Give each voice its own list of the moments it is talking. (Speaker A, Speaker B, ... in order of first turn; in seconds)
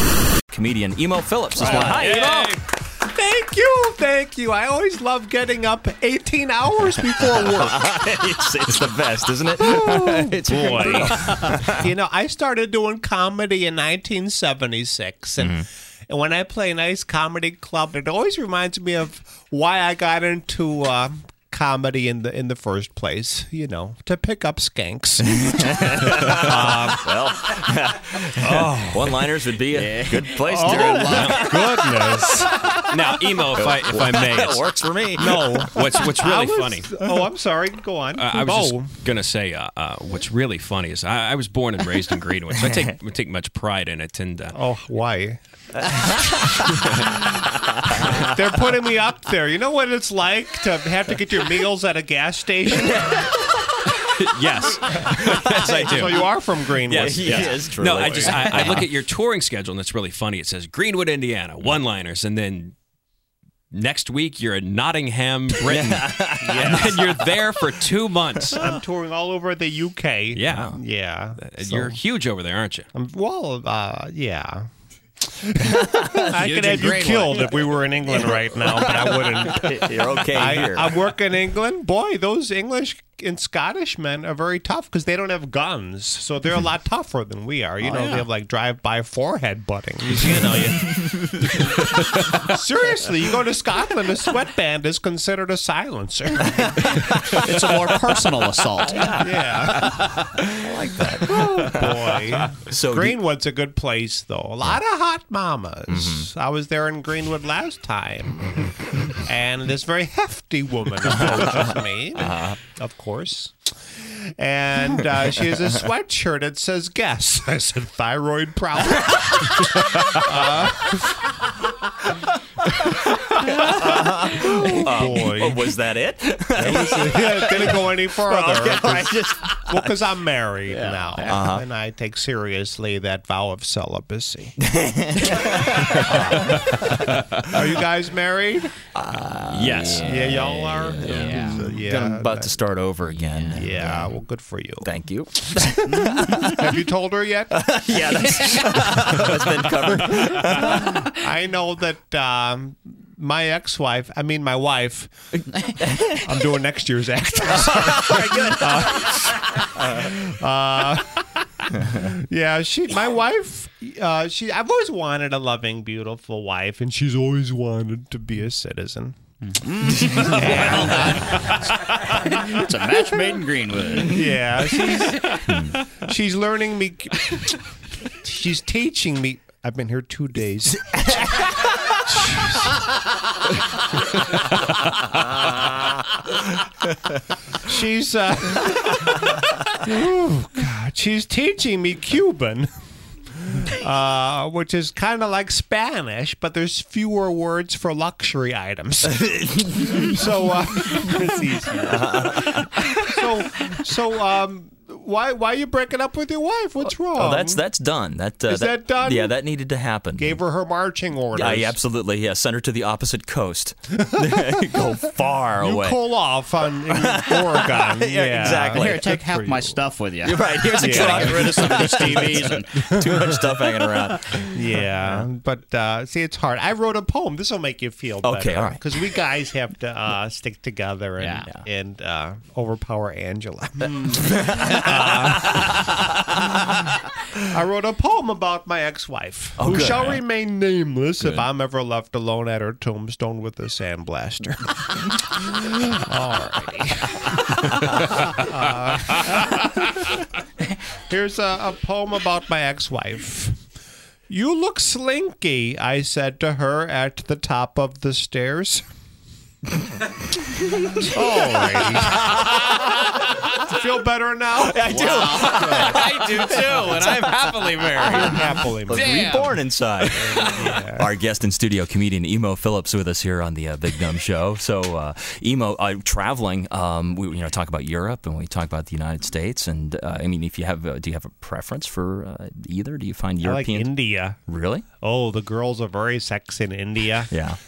Speaker A: 0.5-2.5, 7.0-11.9, 15.4-15.7, 25.3-32.5, 33.4-36.1, 42.5-42.9, 45.8-48.3, 53.0-53.3, 57.0-58.9, 65.6-67.8, 68.5-68.8, 70.4-70.8, 75.8-76.2, 79.3-81.0, 100.5-103.2, 105.9-106.3, 111.3-112.6, 119.1-120.0, 122.6-130.1, 131.2-131.7, 134.6-137.0, 138.9-144.2, 144.8-146.7, 147.6-151.0, 155.8-156.1, 157.5-159.1, 175.5-175.8, 199.3-200.1, 201.8-202.9, 207.0-210.4, 211.3-216.0, 216.8-219.1, 220.2-225.2, 228.2-228.9, 234.2-235.3, 239.6-240.2, 241.2-241.5, 262.2-263.1, 264.6-284.9, 287.3-287.6
Speaker B: 1.6-2.6, 31.0-31.5, 32.8-34.7, 35.4-37.0, 38.1-44.6, 46.8-47.1, 53.9-56.3, 56.9-62.8, 63.7-68.6, 70.3-70.8, 71.4-72.9, 91.6-91.9, 139.5-140.4
Speaker C: 1.6-2.2, 3.0-8.1, 9.6-27.1, 28.4-29.3, 30.4-32.6, 35.2-39.0, 44.5-45.4, 47.9-53.3, 55.4-58.8, 66.4-67.0, 68.5-72.0, 72.9-74.7, 75.2-97.3, 99.1-100.1, 101.0-121.4, 123.7-125.8, 126.5-134.6, 135.9-138.8, 139.9-142.6, 143.5-144.9, 146.2-147.7, 150.1-155.1, 156.1-169.2, 170.0-172.4, 174.0-182.8, 187.6-192.7, 193.3-207.6, 208.5-209.4, 210.2-211.8, 215.6-219.8, 220.8-223.4, 224.5-235.9, 237.4-250.1, 251.0-253.6, 254.3-258.9, 261.0-262.4, 263.2-266.1, 267.9-269.4, 270.2-271.1, 283.4-284.4, 285.0-287.4
Speaker D: 1.8-2.5, 29.7-31.8, 76.2-77.8, 87.8-88.3, 97.3-99.2, 130.7-131.4, 139.8-140.1, 141.0-141.6, 143.3-143.6, 145.9-146.5, 148.2-149.1, 169.5-174.3, 174.9-175.4, 218.8-222.8, 231.2-231.5, 260.9-261.1, 264.9-269.5